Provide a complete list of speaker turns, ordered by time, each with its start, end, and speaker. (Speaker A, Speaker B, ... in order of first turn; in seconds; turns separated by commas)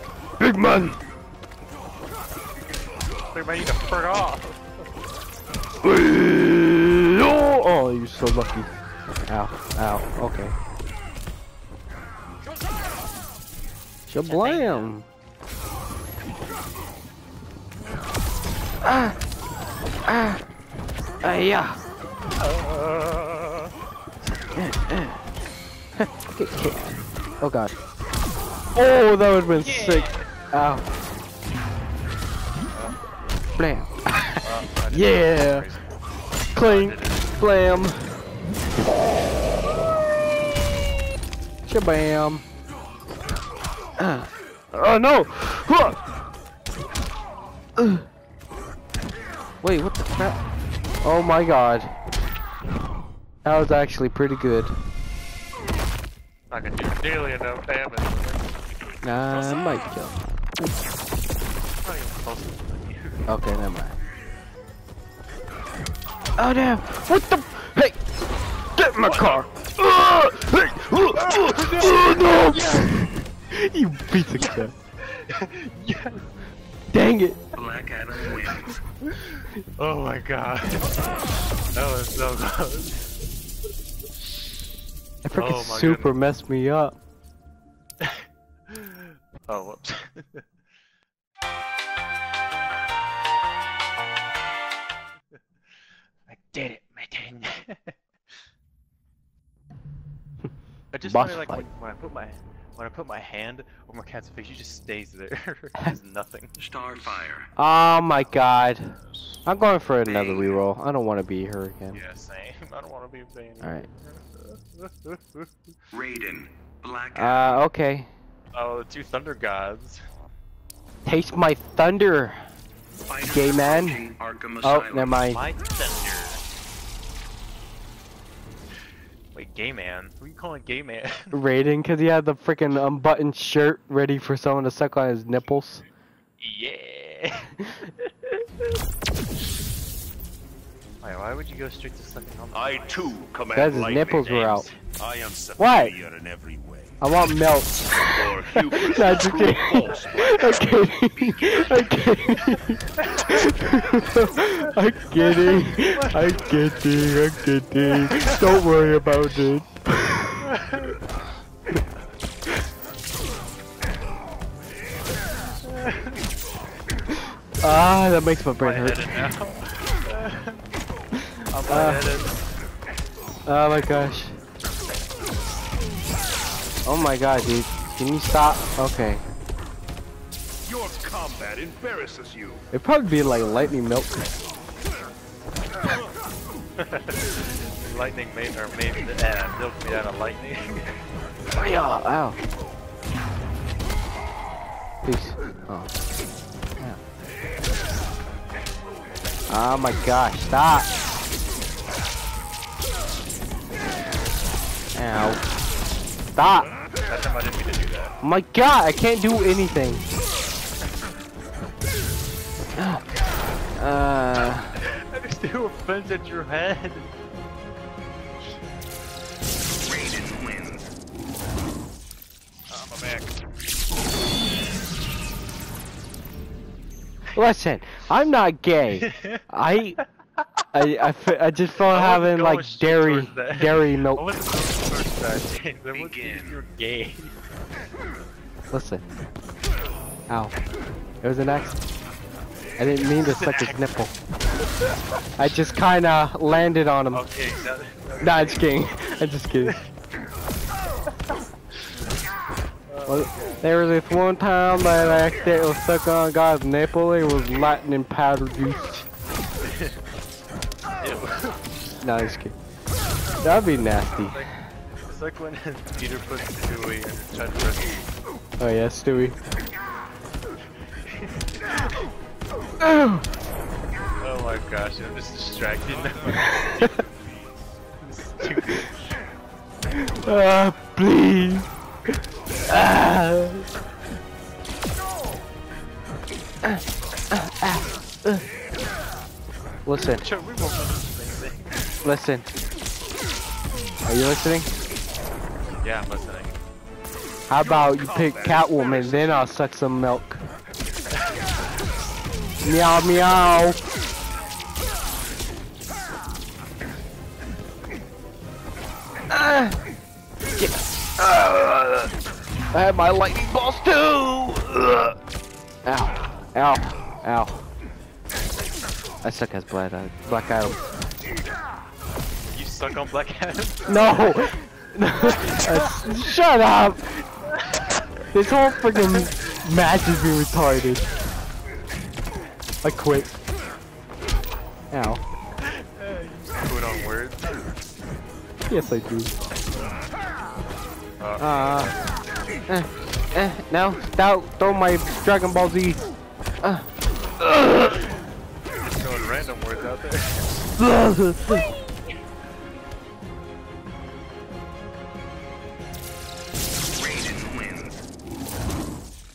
Speaker A: 0.4-1.0, Speaker B: 3.3-4.6, Speaker A: 5.8-8.7, Speaker A: 9.3-10.6, Speaker A: 14.1-15.1, Speaker B: 14.3-14.9, Speaker A: 18.8-19.2, Speaker A: 20.1-20.4, Speaker A: 21.2-21.8, Speaker B: 22.4-23.7, Speaker A: 24.5-25.2, Speaker A: 26.0-27.7, Speaker A: 28.8-30.8, Speaker B: 29.4-30.3, Speaker A: 33.6-35.7, Speaker B: 34.4-36.0, Speaker A: 36.5-38.0, Speaker B: 36.5-37.4, Speaker A: 41.7-42.5, Speaker A: 44.0-46.0, Speaker A: 47.8-48.0, Speaker A: 49.6-50.4, Speaker A: 51.0-51.9, Speaker A: 53.5-54.8, Speaker B: 56.5-58.5, Speaker A: 59.0-60.1, Speaker B: 61.8-63.2, Speaker A: 63.3-64.0, Speaker A: 66.4-68.0, Speaker A: 68.8-74.7, Speaker B: 69.0-69.5, Speaker B: 71.1-73.0, Speaker B: 74.4-76.3, Speaker A: 76.9-77.4, Speaker C: 77.5-78.8, Speaker B: 78.5-80.9, Speaker B: 81.7-83.0, Speaker A: 85.2-87.0, Speaker B: 85.3-86.2, Speaker B: 88.0-90.4, Speaker B: 96.3-98.0, Speaker B: 100.9-106.6, Speaker A: 101.0-101.7, Speaker C: 106.6-107.5, Speaker A: 107.6-112.0, Speaker B: 108.2-108.5, Speaker B: 109.1-109.4, Speaker C: 110.0-110.6, Speaker B: 111.9-115.5, Speaker A: 113.6-113.9, Speaker C: 115.9-117.6, Speaker A: 117.2-118.1, Speaker B: 118.5-120.0, Speaker A: 121.0-122.4, Speaker C: 123.0-125.1, Speaker A: 123.2-124.0, Speaker A: 124.6-125.4, Speaker B: 125.3-126.4, Speaker B: 129.3-131.3, Speaker A: 131.3-135.9, Speaker B: 136.4-138.4, Speaker B: 141.0-143.1, Speaker D: 142.5-144.3, Speaker A: 143.6-144.7, Speaker B: 144.2-144.8, Speaker D: 145.0-147.0, Speaker A: 145.6-145.9, Speaker A: 147.0-160.5, Speaker D: 148.0-151.1, Speaker C: 151.4-152.1, Speaker B: 153.0-153.4, Speaker B: 155.2-156.3, Speaker B: 157.9-158.7, Speaker B: 160.5-160.9, Speaker B: 165.6-166.2, Speaker A: 167.6-169.2, Speaker B: 168.6-170.6, Speaker B: 171.5-172.4, Speaker A: 171.7-172.1, Speaker A: 173.5-174.4, Speaker A: 176.8-179.2, Speaker D: 180.7-182.6, Speaker A: 182.7-184.3, Speaker B: 186.8-190.9, Speaker A: 191.5-192.4, Speaker A: 195.0-195.9, Speaker A: 199.5-200.9, Speaker A: 204.9-205.4, Speaker A: 206.3-206.7, Speaker B: 207.1-208.1, Speaker A: 208.2-210.1, Speaker A: 212.8-213.0, Speaker A: 213.8-214.8, Speaker B: 214.8-217.1, Speaker C: 219.8-220.8, Speaker B: 222.7-223.3, Speaker A: 227.3-230.0, Speaker B: 229.1-229.4, Speaker A: 230.7-234.3, Speaker B: 231.9-237.3, Speaker C: 235.9-236.6, Speaker A: 238.7-239.0, Speaker A: 241.2-241.8, Speaker A: 242.8-244.1, Speaker B: 243.2-243.8, Speaker A: 245.4-247.3, Speaker B: 247.1-248.7, Speaker A: 248.2-249.8, Speaker B: 252.9-253.6, Speaker A: 253.1-259.1, Speaker B: 259.6-260.0, Speaker B: 261.0-261.6, Speaker A: 262.0-262.6, Speaker A: 263.4-264.5, Speaker B: 264.1-264.5, Speaker B: 265.1-268.1, Speaker A: 268.6-269.4, Speaker B: 271.1-272.0, Speaker A: 272.8-273.2, Speaker B: 274.2-276.8, Speaker A: 276.6-276.9, Speaker B: 278.0-279.0, Speaker A: 279.9-281.7, Speaker A: 282.7-283.7, Speaker A: 286.6-288.4, Speaker A: 289.9-290.3, Speaker B: 290.1-291.8, Speaker A: 292.0-292.5, Speaker A: 294.1-294.7, Speaker B: 295.8-296.6, Speaker A: 297.5-300.4, Speaker D: 297.5-299.6, Speaker B: 301.2-301.4, Speaker A: 302.6-303.8, Speaker A: 309.3-309.8, Speaker A: 310.6-312.1, Speaker A: 312.7-315.2, Speaker A: 315.9-317.7, Speaker A: 319.2-320.8, Speaker B: 322.5-324.5, Speaker A: 323.9-327.2, Speaker B: 325.5-326.1, Speaker B: 327.6-328.0, Speaker A: 328.3-331.1, Speaker B: 328.9-329.3, Speaker A: 332.8-333.4, Speaker A: 334.9-335.2, Speaker B: 335.8-337.6, Speaker A: 338.7-339.3, Speaker B: 341.2-342.1, Speaker A: 341.4-341.9, Speaker A: 342.7-346.0, Speaker A: 347.4-348.1, Speaker B: 347.9-348.1, Speaker B: 348.8-350.6, Speaker A: 350.8-351.7, Speaker C: 357.0-357.9